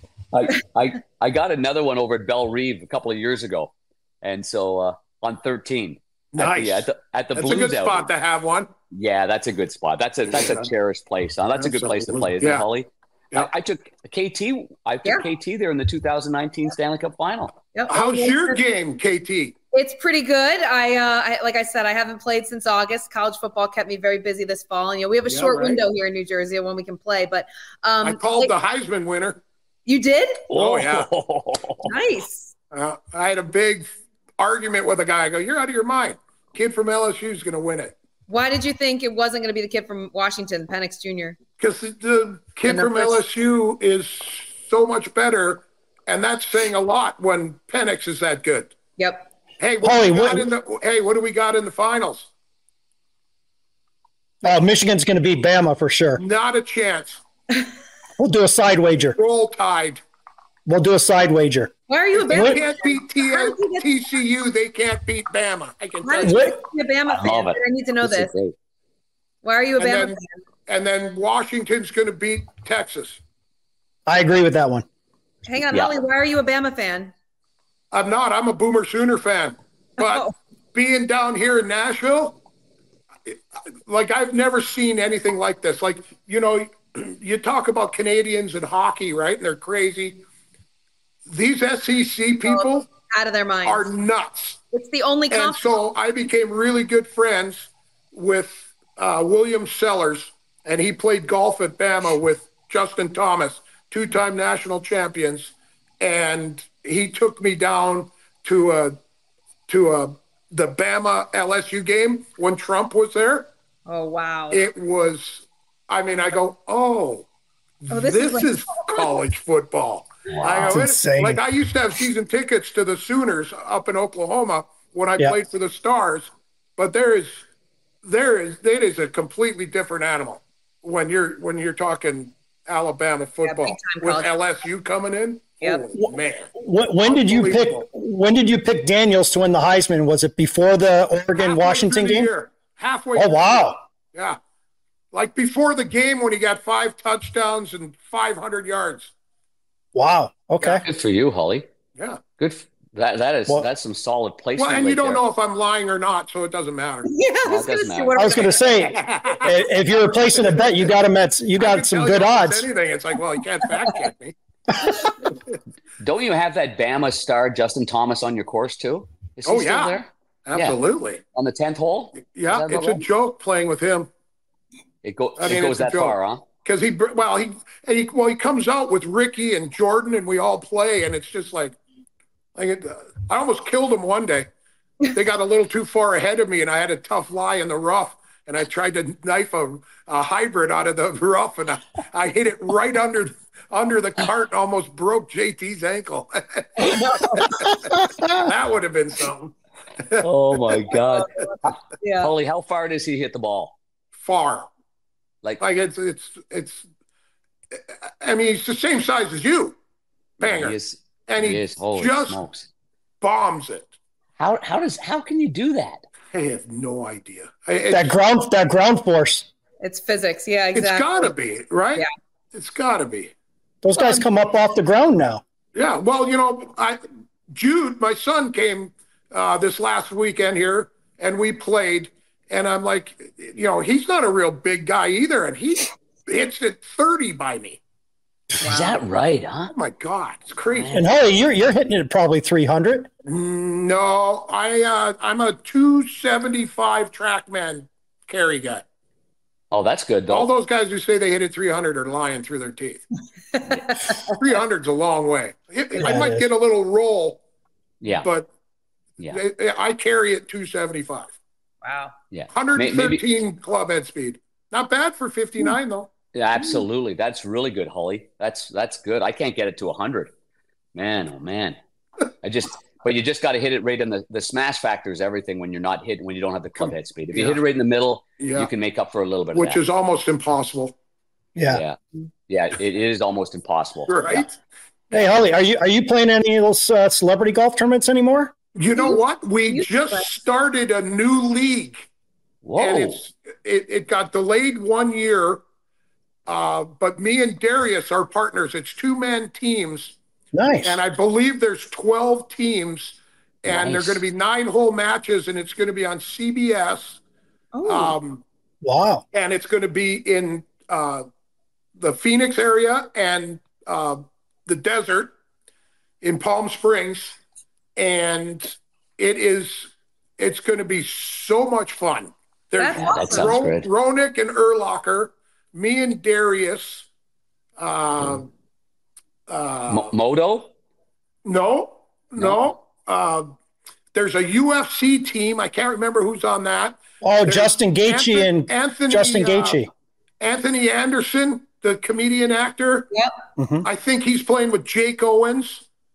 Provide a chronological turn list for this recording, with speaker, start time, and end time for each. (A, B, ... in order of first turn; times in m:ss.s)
0:00.3-0:08.1 A
0:06.3-0:08.7 B
0:08.9-0:17.6 A
0:10.3-0:10.7 B
0:11.6-0:12.6 B
0:17.7-0:18.6 C
0:17.9-0:19.6 B
0:19.7-0:28.5 C
0:25.3-0:25.8 B
0:28.0-0:29.4 B
0:29.8-0:30.4 C
0:30.5-0:31.9 A
0:30.5-0:31.1 B
0:31.8-0:32.5 C
0:32.7-0:37.9 B
0:38.3-0:41.4 C
0:41.6-0:48.7 B
0:42.7-0:43.2 C
0:49.0-0:49.3 C
0:49.6-0:52.3 B
0:49.8-0:50.5 D
0:54.4-0:56.2 D
0:56.2-0:57.2 B
0:58.2-0:59.2 D
0:59.2-1:00.0 B
1:00.6-1:01.7 D
1:01.9-1:03.9 C
1:02.1-1:06.5 B
1:02.3-1:02.6 D
1:06.0-1:08.3 C
1:06.2-1:06.6 D
1:07.1-1:08.5 A
1:09.4-1:10.2 C
1:09.8-1:13.2 B
1:14.1-1:14.8 D
1:15.4-1:17.1 C
1:17.9-1:22.4 B
1:20.0-1:20.3 C
1:23.2-1:30.2 B
1:31.2-1:32.9 B
1:32.4-1:33.9 C
1:33.6-1:34.6 B
1:34.7-1:35.7 C
1:35.3-1:49.0 B
1:49.7-1:53.5 B
1:53.9-1:54.6 C
1:54.5-1:57.3 B
1:57.8-2:07.4 B
1:57.9-1:59.1 C
2:00.3-2:00.8 A
2:00.6-2:01.4 D
2:08.0-2:16.5 B
2:13.4-2:14.3 C
2:15.9-2:22.3 D
2:17.0-2:17.8 B
2:21.4-2:24.4 B
2:23.2-2:23.8 D
2:25.1-2:29.1 B
2:29.9-2:30.8 D
2:30.8-2:31.7 A
2:32.0-2:32.2 B
2:32.4-2:35.2 A
2:34.6-2:37.1 B
2:37.0-2:38.9 C
2:37.4-2:38.2 A
2:38.2-2:42.7 D
2:38.8-2:40.9 B
2:41.6-2:44.3 B
2:46.0-2:50.8 A
2:49.4-2:51.2 B
2:51.3-2:53.0 A
2:52.2-2:54.1 B
2:55.0-2:56.4 A
2:55.4-3:01.8 B
3:02.6-3:04.5 B
3:05.1-3:20.8 B
3:16.8-3:17.7 C
3:20.2-3:23.8 A
3:21.0-3:22.3 C
3:24.2-3:24.7 B
3:25.6-3:26.8 B
3:28.2-3:29.8 B
3:30.4-3:30.8 B
3:30.4-3:32.7 A
3:31.3-3:32.4 B
3:33.2-3:33.9 B
3:34.4-3:36.0 A
3:36.3-3:38.1 B
3:37.9-3:39.5 D
3:39.8-3:41.3 C
3:40.7-3:43.3 B
3:43.8-3:45.4 D
3:43.9-3:44.2 C
3:45.7-3:57.8 B
3:58.6-3:59.7 A
3:58.6-3:59.0 C
3:59.7-4:01.0 B
4:00.7-4:01.1 A
4:00.9-4:03.1 D
4:03.2-4:08.8 B
4:09.7-4:10.5 A
4:10.3-4:13.0 B
4:13.5-4:14.3 C
4:14.2-4:17.4 B
4:16.0-4:16.5 D
4:18.0-4:18.3 A
4:18.1-4:18.5 B
4:19.3-4:21.3 B
4:21.8-4:22.1 C
4:22.3-4:23.2 A
4:22.5-4:26.1 B
4:26.3-4:30.3 A
4:30.9-4:31.8 A
4:32.4-4:39.8 A
4:36.8-4:37.6 B
4:38.4-4:38.7 B
4:39.5-4:40.9 B
4:41.6-4:41.8 D
4:41.7-4:42.0 A
4:42.5-4:44.4 A
4:44.1-4:44.6 B
4:45.1-4:48.5 D
4:48.7-4:52.1 B
4:49.0-4:50.2 C
4:52.6-4:53.2 A
4:52.8-4:55.6 B
4:56.4-5:00.2 B
5:00.5-5:01.0 D
5:00.8-5:07.2 B
5:03.6-5:04.2 A
5:07.7-5:08.2 C
5:07.8-5:08.4 B
5:08.8-5:09.2 D
5:09.3-5:11.2 B
5:12.0-5:15.3 B
5:16.2-5:17.4 B
5:18.0-5:27.1 B
5:22.8-5:23.6 C
5:22.9-5:23.9 A
5:27.8-5:28.5 B
5:29.5-5:30.1 B
5:29.9-5:30.7 A
5:31.4-5:33.5 B
5:34.1-5:39.8 B
5:37.2-5:39.9 D
5:40.4-5:43.1 B
5:43.6-5:43.9 D
5:43.8-5:45.8 B